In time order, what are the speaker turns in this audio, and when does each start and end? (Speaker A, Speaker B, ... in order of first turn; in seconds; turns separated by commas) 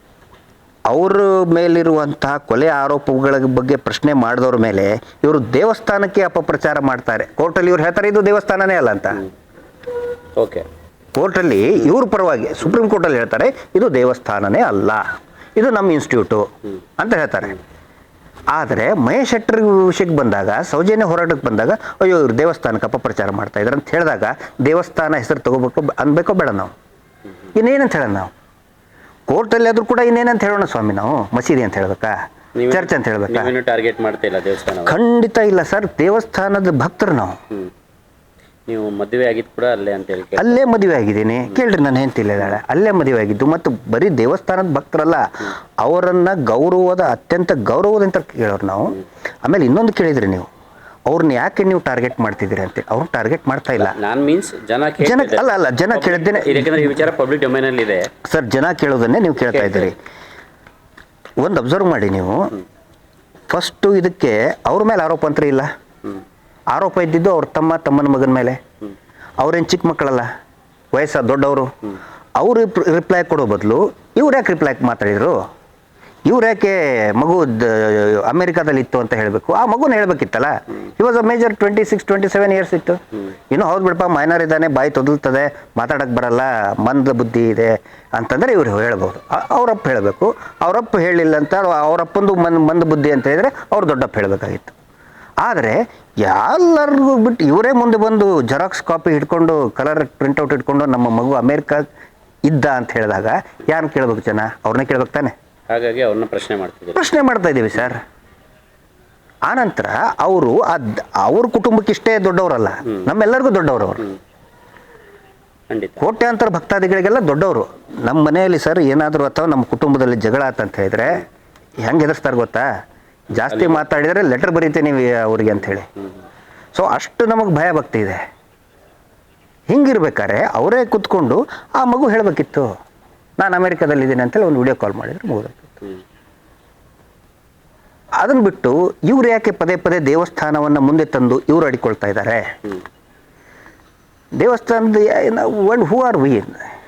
Speaker A: 0.9-9.2, Speaker B: 10.4-10.6, Speaker A: 11.1-15.0, Speaker A: 15.6-16.5, Speaker A: 17.0-17.6, Speaker A: 18.5-26.7, Speaker A: 27.5-28.3, Speaker A: 29.3-32.1, Speaker B: 32.5-35.0, Speaker A: 32.7-33.5, Speaker A: 34.9-37.4, Speaker B: 38.7-40.6, Speaker A: 40.4-50.5, Speaker A: 51.1-53.9, Speaker B: 53.8-58.1, Speaker A: 55.0-56.8, Speaker A: 58.2-60.0, Speaker B: 59.4-59.9, Speaker A: 61.4-62.5, Speaker A: 63.5-65.7, Speaker A: 66.7-68.6, Speaker A: 69.4-70.3, Speaker A: 70.9-71.7, Speaker A: 72.4-75.4, Speaker A: 76.2-94.7, Speaker A: 95.4-101.8, Speaker A: 102.4-105.3, Speaker B: 105.7-107.0, Speaker A: 107.0-108.0, Speaker A: 109.5-114.0, Speaker B: 115.7-116.0, Speaker A: 116.0-121.2, Speaker A: 121.8-122.7, Speaker A: 123.3-125.9, Speaker B: 123.5-123.8, Speaker A: 126.7-128.2, Speaker A: 129.7-132.7, Speaker A: 133.4-135.7, Speaker A: 138.2-142.4, Speaker A: 144.4-146.6